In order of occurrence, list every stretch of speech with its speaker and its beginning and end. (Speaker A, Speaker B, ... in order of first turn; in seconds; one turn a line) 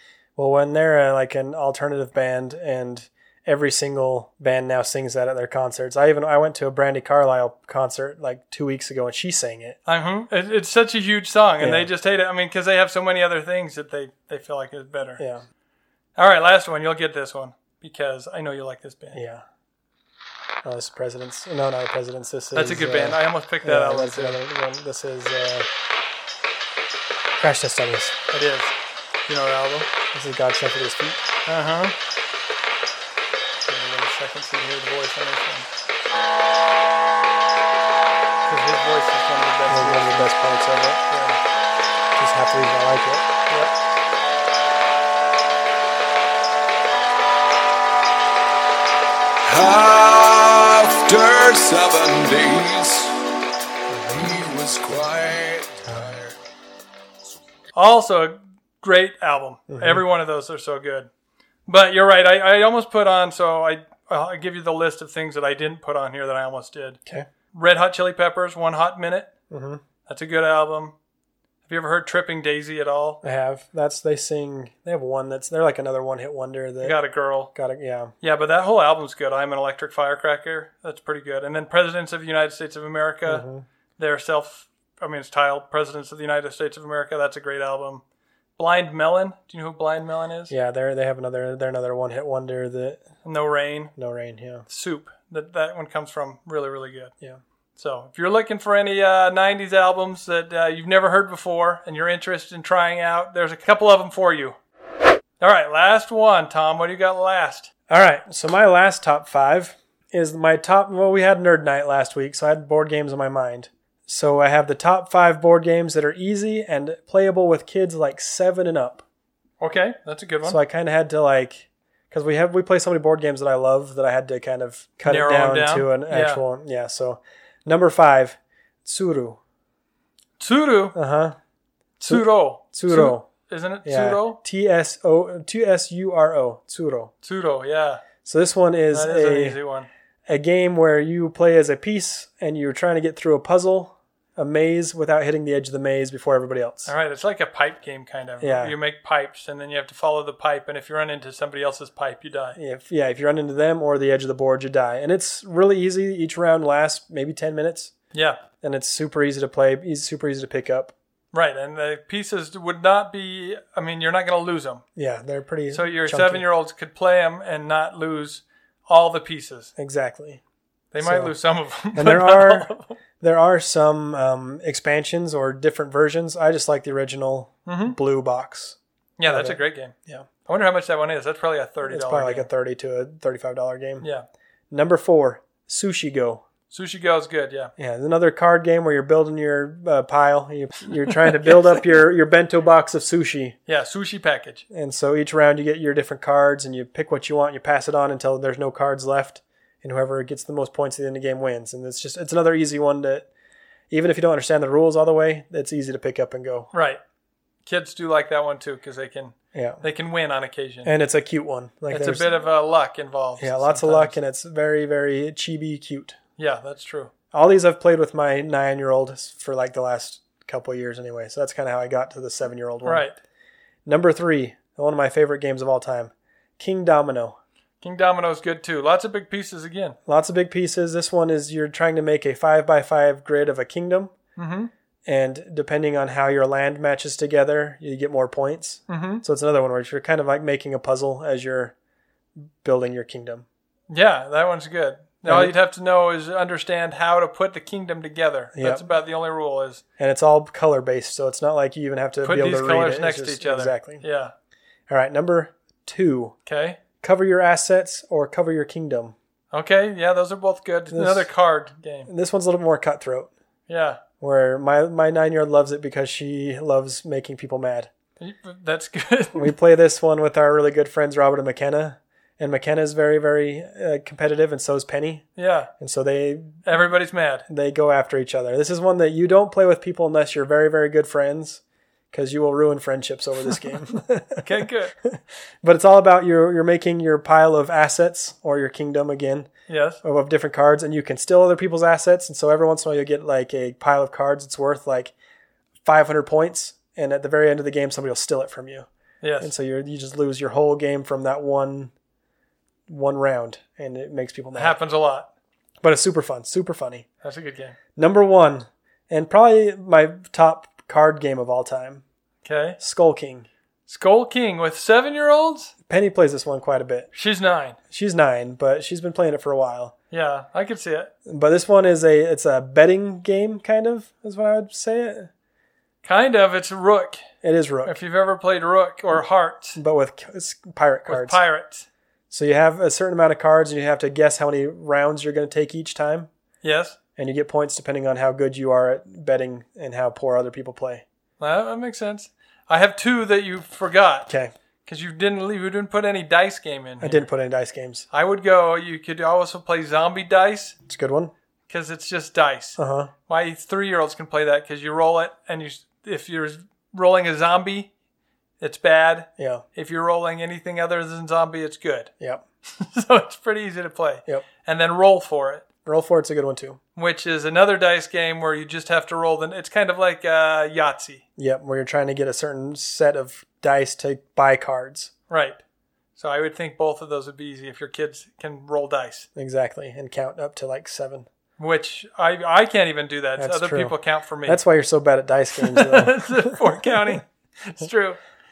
Speaker A: 0.4-9.8
Speaker B: 9.9-15.2
Speaker A: 11.6-11.9
Speaker B: 16.2-19.2
Speaker A: 19.1-19.4
Speaker A: 20.6-25.7
Speaker B: 22.5-24.4
Speaker A: 27.4-28.2
Speaker B: 28.3-28.7
Speaker B: 29.3-29.9
Speaker A: 30.1-31.2
Speaker B: 31.5-31.9
Speaker B: 33.7-35.7
Speaker B: 38.5-40.3
Speaker A: 39.7-41.0
Speaker B: 41.1-41.4
Speaker A: 42.2-43.3
Speaker C: 49.4-53.2
Speaker A: 53.9-54.4
Speaker C: 54.1-56.4
Speaker A: 55.9-56.1
Speaker B: 57.7-61.1
Speaker A: 59.7-60.0
Speaker B: 61.7-67.0
Speaker B: 67.5-69.3
Speaker A: 69.5-69.8
Speaker B: 70.1-71.0
Speaker B: 71.7-73.2
Speaker A: 73.2-77.0
Speaker B: 76.8-77.5
Speaker A: 77.5-78.1
Speaker B: 78.2-83.5
Speaker A: 83.3-83.7
Speaker B: 84.0-88.0
Speaker B: 88.6-90.5
Speaker A: 90.5-93.0
Speaker B: 93.2-93.9
Speaker A: 94.0-94.7
Speaker B: 94.7-97.1
Speaker B: 97.8-104.6
Speaker B: 105.4-107.7
Speaker A: 107.9-119.0
Speaker B: 119.6-120.6
Speaker A: 120.5-129.4
Speaker B: 125.1-126.4
Speaker B: 130.4-131.0
Speaker A: 130.9-131.4
Speaker A: 132.0-133.3
Speaker B: 132.0-134.4
Speaker A: 133.8-137.1
Speaker B: 137.2-138.0
Speaker A: 138.2-139.6
Speaker B: 138.9-139.9
Speaker A: 140.3-146.9
Speaker B: 146.9-152.6
Speaker A: 148.4-148.8
Speaker A: 152.6-157.9
Speaker B: 158.1-158.4
Speaker A: 158.6-160.9
Speaker B: 161.3-164.8
Speaker A: 165.0-166.4
Speaker B: 165.7-169.7
Speaker A: 169.8-170.4
Speaker B: 170.9-173.0
Speaker A: 171.0-171.4
Speaker A: 171.9-178.8
Speaker B: 177.7-178.0
Speaker B: 179.2-182.5
Speaker A: 179.3-180.3
Speaker A: 181.9-184.1
Speaker B: 184.0-184.3
Speaker A: 184.7-186.4
Speaker B: 186.7-187.7
Speaker A: 187.8-193.6
Speaker B: 193.7-194.6
Speaker A: 194.7-203.3
Speaker A: 203.9-206.7
Speaker B: 206.7-207.0
Speaker B: 207.7-210.9
Speaker A: 209.5-209.8
Speaker A: 210.8-212.2
Speaker B: 211.9-214.2
Speaker A: 213.4-216.2
Speaker B: 216.4-217.1
Speaker A: 217.3-223.1
Speaker B: 222.8-223.2
Speaker A: 223.8-227.4
Speaker B: 227.8-230.0
Speaker A: 230.1-234.1
Speaker B: 234.4-234.7
Speaker A: 235.1-241.8
Speaker B: 238.9-239.2
Speaker A: 242.6-243.5
Speaker B: 243.9-249.8
Speaker A: 245.2-245.5
Speaker A: 248.5-248.9
Speaker A: 250.0-254.0
Speaker B: 252.2-254.3
Speaker A: 254.9-256.4
Speaker B: 256.5-256.8
Speaker A: 257.0-259.1
Speaker B: 259.5-262.1
Speaker A: 260.9-261.3
Speaker A: 262.1-263.3
Speaker B: 263.7-264.0
Speaker A: 264.2-267.9
Speaker B: 268.2-269.5
Speaker A: 269.4-275.3
Speaker B: 275.4-275.7
Speaker A: 275.8-276.6
Speaker B: 276.6-277.5
Speaker A: 277.5-281.6
Speaker A: 282.1-289.5
Speaker B: 284.4-284.9
Speaker B: 289.7-290.0
Speaker A: 290.0-295.1
Speaker A: 295.8-298.9
Speaker B: 299.2-299.5
Speaker A: 299.4-301.9
Speaker A: 302.9-304.8
Speaker B: 304.6-305.3
Speaker A: 305.8-307.1
Speaker B: 307.2-307.8
Speaker A: 308.0-312.0
Speaker B: 312.4-312.8
Speaker A: 312.8-313.5
Speaker B: 313.9-315.7
Speaker A: 315.9-317.1
Speaker B: 317.1-317.8
Speaker A: 317.9-319.9
Speaker B: 320.1-321.1
Speaker A: 321.3-325.3
Speaker B: 326.0-327.3
Speaker A: 327.4-328.0
Speaker B: 327.9-329.8
Speaker A: 329.8-331.4
Speaker B: 331.1-331.9
Speaker A: 332.3-336.3
Speaker B: 336.6-337.0
Speaker A: 337.2-341.0
Speaker B: 341.4-344.3
Speaker A: 344.3-344.5
Speaker B: 344.9-347.2
Speaker A: 347.0-348.1
Speaker B: 348.1-350.8
Speaker A: 350.9-351.3
Speaker B: 351.7-357.9
Speaker A: 352.8-353.1
Speaker B: 358.6-362.1
Speaker A: 359.4-359.6
Speaker B: 362.7-365.7
Speaker A: 365.9-366.8
Speaker B: 367.0-371.2
Speaker A: 371.4-375.1
Speaker B: 375.3-375.6
Speaker B: 376.2-379.3
Speaker A: 379.4-381.3
Speaker B: 381.6-384.6
Speaker A: 383.4-387.0
Speaker B: 385.6-388.2